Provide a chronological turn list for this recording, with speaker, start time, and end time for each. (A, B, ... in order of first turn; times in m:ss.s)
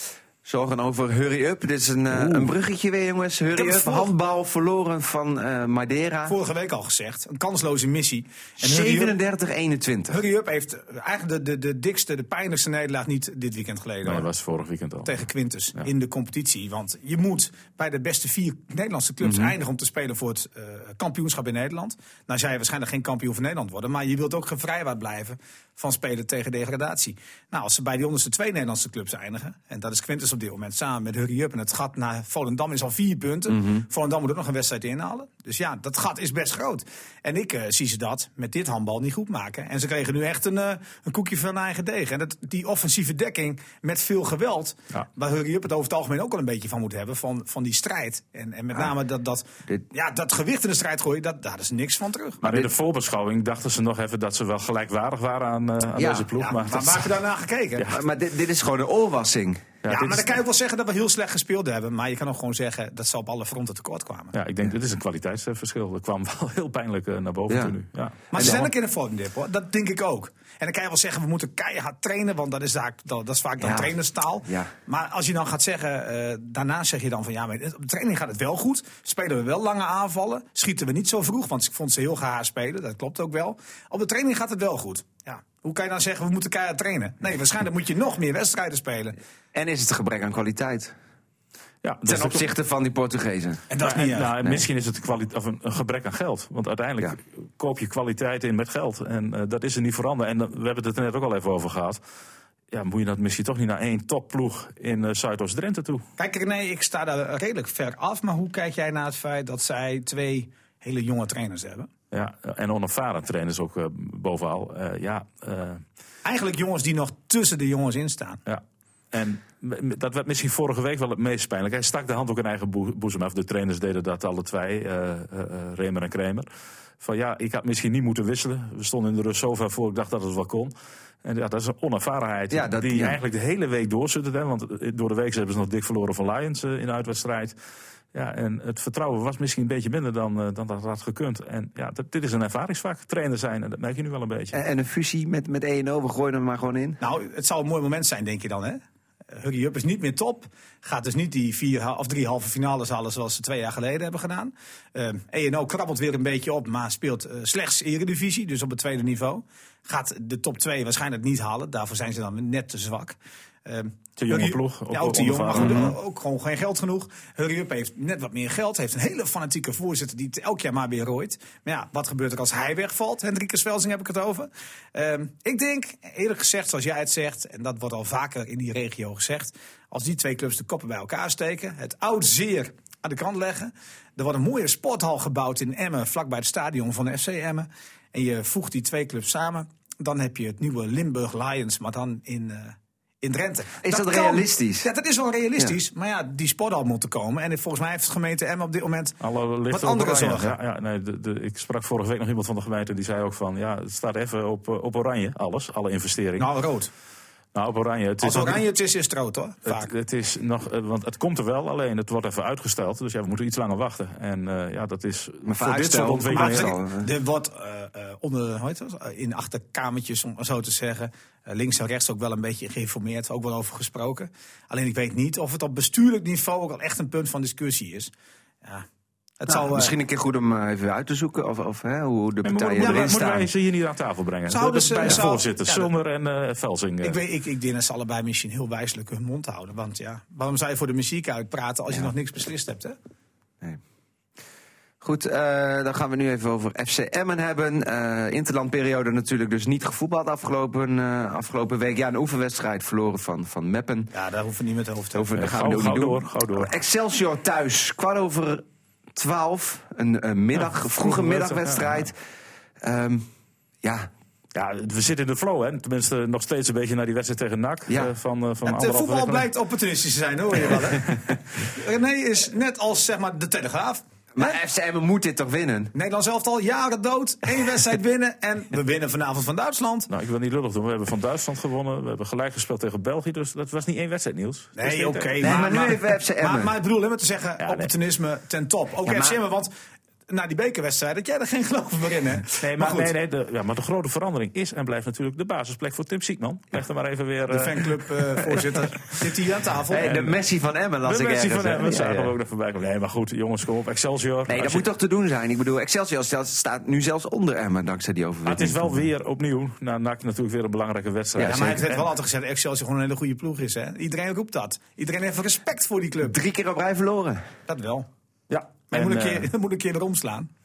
0:00.4-0:06.4 A
0:02.1-0:02.5 B
0:03.5-0:04.1 C
0:06.2-0:09.2 C
0:08.6-0:10.2 A
0:10.1-0:14.3 C
0:14.0-0:15.2 B
0:15.0-0:52.4 C
0:19.2-0:19.6 A
0:52.4-0:57.1 B
0:52.4-0:52.7 A
0:56.0-0:56.3 A
0:56.4-0:57.9 C
0:57.9-0:59.8 A
0:59.8-1:00.3 B
0:59.9-1:04.4 C
1:04.3-1:08.6 B
1:07.5-1:07.8 A
1:08.3-1:29.2 C
1:08.3-1:08.7 A
1:13.6-1:14.7 A
1:29.5-1:30.9 A
1:31.8-1:32.5 B
1:32.0-1:33.7 A
1:33.7-1:34.3 C
1:33.8-1:42.0 B
1:42.7-1:46.0 B
1:46.2-1:51.9 C
1:52.1-1:55.8 B
1:56.2-1:58.4 C
1:58.4-2:06.5 B
2:07.0-2:17.6 B
2:12.5-2:13.2 A
2:18.1-2:24.6 B
2:24.5-2:27.0 A
2:27.0-2:28.8 C
2:29.3-3:20.6 C
2:44.2-2:46.0 B
3:13.8-3:14.9 A
3:19.2-3:26.5 B
3:26.4-3:26.9 C
3:27.5-3:28.6 B
3:28.2-3:29.9 C
3:29.6-3:36.8 B
3:35.4-3:37.1 A
3:36.3-3:48.1 C
3:49.4-3:50.0 C
3:49.5-3:53.5 A
3:52.4-3:57.2 B
3:52.8-3:53.2 C
3:54.4-3:55.9 C
3:57.0-4:03.0 C
4:05.0-4:14.1 A
4:14.1-4:15.3 C
4:15.1-4:18.6 A
4:15.3-4:16.8 B
4:19.2-4:22.2 A
4:20.5-4:22.1 B
4:22.8-4:23.2 A
4:23.8-4:24.1 A
4:24.5-4:29.5 B
4:27.9-4:28.1 A
4:28.6-4:34.6 C
4:34.4-4:35.9 A
4:35.9-4:40.1 C
4:40.1-4:45.9 B
4:44.8-4:49.7 C
4:45.4-4:46.8 A
4:47.6-4:47.9 B
4:49.0-4:49.4 A
4:50.3-4:53.1 C
4:52.6-4:58.6 B
4:57.5-5:00.2 C
4:59.9-5:02.3 A
5:00.0-5:00.4 B
5:01.0-5:04.9 B
5:04.5-5:09.0 A
5:08.4-5:12.1 B
5:11.4-5:11.8 A
5:11.4-5:16.4 C
5:16.2-5:17.4 A
5:17.7-5:18.1 C
5:18.5-5:19.5 B
5:18.9-5:20.5 C